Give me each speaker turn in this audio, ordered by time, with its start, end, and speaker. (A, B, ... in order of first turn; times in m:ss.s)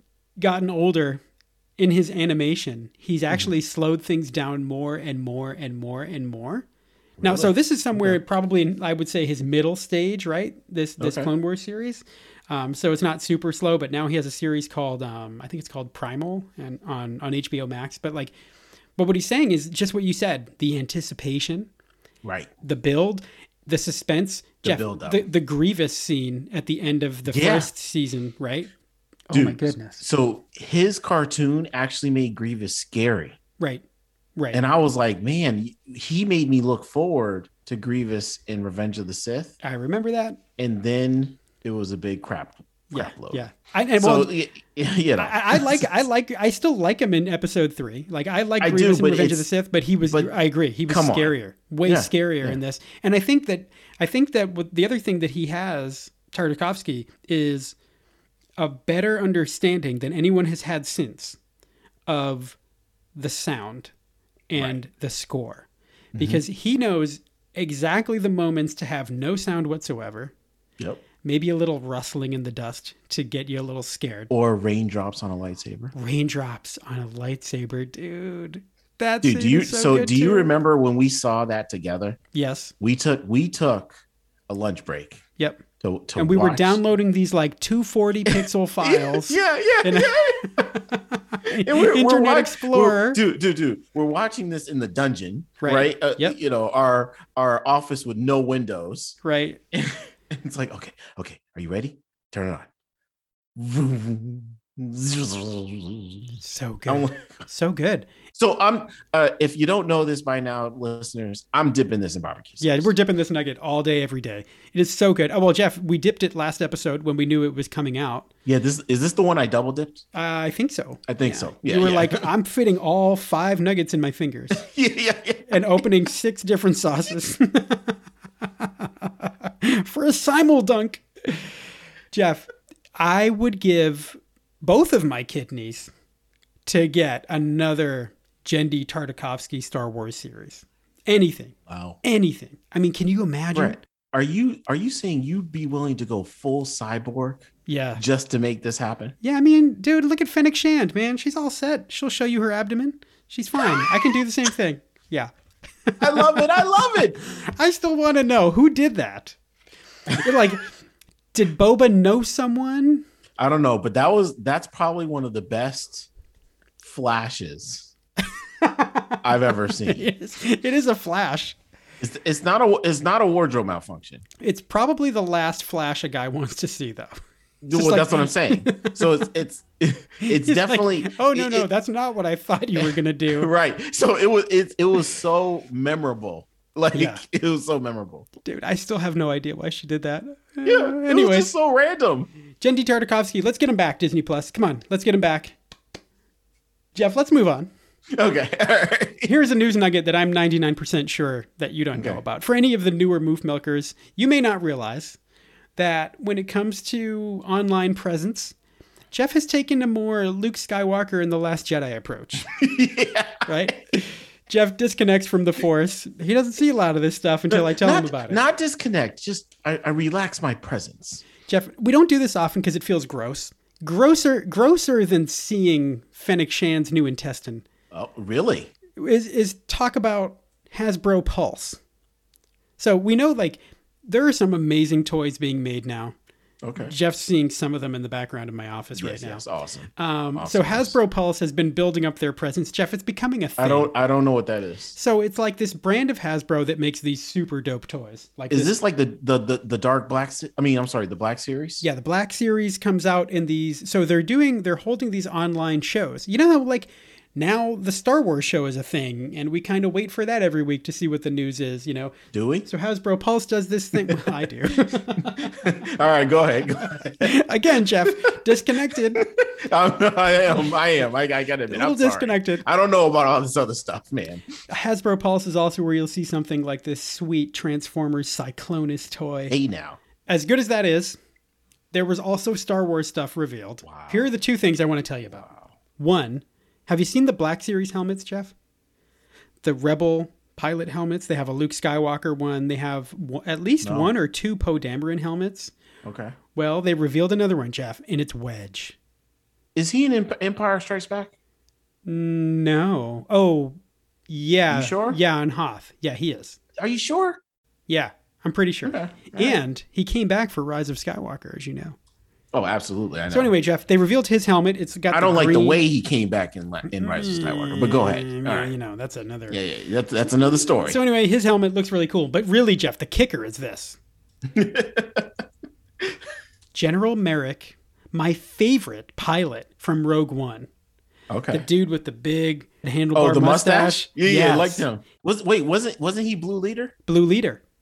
0:00.4-0:01.2 A
0:01.8-0:06.7 A
0:07.2-0:08.2 B
0:07.2-0:18.3 A
0:11.0-0:11.3 B
0:19.0-0:21.7 A
0:22.2-0:22.5 B
0:22.6-0:28.7 A
0:24.6-0:25.2 B
0:27.3-0:27.7 B
0:29.3-0:30.0 A
0:29.3-0:33.4 B
0:33.6-0:33.8 A
0:34.4-0:34.6 A
0:34.5-0:39.6 B
0:39.6-0:40.4 A
0:40.6-0:43.4 B
0:42.9-0:44.3 A
0:44.0-0:45.9 B
0:45.2-0:57.8 A
0:48.6-0:49.5 B
0:50.1-0:50.3 B
0:50.9-0:51.3 B
0:51.8-0:52.6 B
0:58.6-1:01.4 A
1:02.1-1:02.6 A
1:03.2-1:03.9 A
1:04.5-1:10.3 A
1:04.6-1:04.8 B
1:06.1-1:06.4 B
1:11.2-1:14.3 A
1:14.3-1:15.9 B
1:15.9-1:20.5 A
1:19.2-1:22.2 B
1:22.3-1:22.7 A
1:22.8-1:23.9 B
1:24.5-1:25.2 B
1:25.4-1:25.6 A
1:25.8-1:26.8 B
1:26.2-1:33.2 A
1:28.3-1:30.7 B
1:31.6-1:39.2 B
1:35.6-1:36.4 A
1:39.2-1:39.6 A
1:39.7-1:42.7 B
1:43.6-1:47.3 B
1:46.4-1:48.1 A
1:48.3-1:52.9 B
1:52.6-1:58.3 A
1:58.5-2:00.0 B
2:00.1-2:04.6 A
2:01.1-2:02.2 B
2:04.6-2:05.8 B
2:05.5-2:11.5 A
2:12.1-2:15.9 A
2:16.6-2:23.8 A
2:21.7-2:22.0 B
2:23.5-2:29.1 B
2:27.7-2:28.0 A
2:29.2-2:35.3 A
2:35.9-2:36.5 A
2:36.0-2:37.2 B
2:37.2-2:39.4 A
2:40.2-2:40.7 A
2:41.3-2:43.0 A
2:43.4-2:46.1 B
2:46.8-2:47.9 B
2:48.6-2:49.2 A
2:49.2-2:50.1 B
2:49.8-2:51.6 A
2:52.0-2:54.2 B
2:54.4-2:57.1 A
2:57.6-3:01.6 B
2:57.7-2:59.0 A
3:00.2-3:03.5 A
3:02.8-3:08.3 B
3:06.9-3:07.2 A
3:08.4-3:11.5 A
3:10.6-3:12.3 B
3:12.6-3:15.6 A
3:17.0-3:17.7 A
3:18.1-3:19.3 B
3:19.2-3:25.2 A
3:22.0-3:22.2 B
3:25.8-3:28.5 A
3:29.1-3:32.5 A
3:32.5-3:33.8 B
3:33.5-3:38.4 A
3:37.5-3:41.2 B
3:41.5-3:47.6 A
3:47.9-3:48.7 B
3:49.0-3:51.8 A
3:52.8-3:56.1 A
3:56.6-3:57.0 B
3:56.8-3:59.4 A
3:59.0-4:01.0 B
4:00.0-4:03.9 A
4:03.6-4:05.0 B
4:05.0-4:08.7 A
4:08.5-4:11.8 B
4:11.8-4:25.8 A
4:22.3-4:22.7 B
4:24.0-4:24.4 B
4:25.2-4:27.4 B
4:26.9-4:29.3 A
4:28.9-4:34.5 B
4:31.7-4:32.6 A
4:34.7-4:39.6 A
4:39.5-4:40.0 B
4:40.3-4:41.2 A
4:41.9-4:48.5 A
4:43.8-4:44.3 B
4:49.6-4:55.7 A
4:53.8-4:54.1 B
4:56.0-4:56.4 B
4:56.6-4:59.0 A
4:59.8-5:01.3 B
5:02.1-5:03.8 A
5:04.3-5:06.6 A
5:04.7-5:05.2 B
5:06.8-5:07.4 B
5:07.9-5:12.0 A
5:08.8-5:09.6 B
5:12.5-5:13.5 B
5:13.3-5:15.8 A
5:15.1-5:18.7 B
5:16.9-5:19.6 A
5:19.5-5:21.0 B
5:20.8-5:24.0 A
5:24.5-5:25.4 B
5:26.7-5:30.7 A
5:31.3-5:31.6 B
5:31.5-5:34.9 A
5:33.1-5:36.9 B
5:37.1-5:37.6 A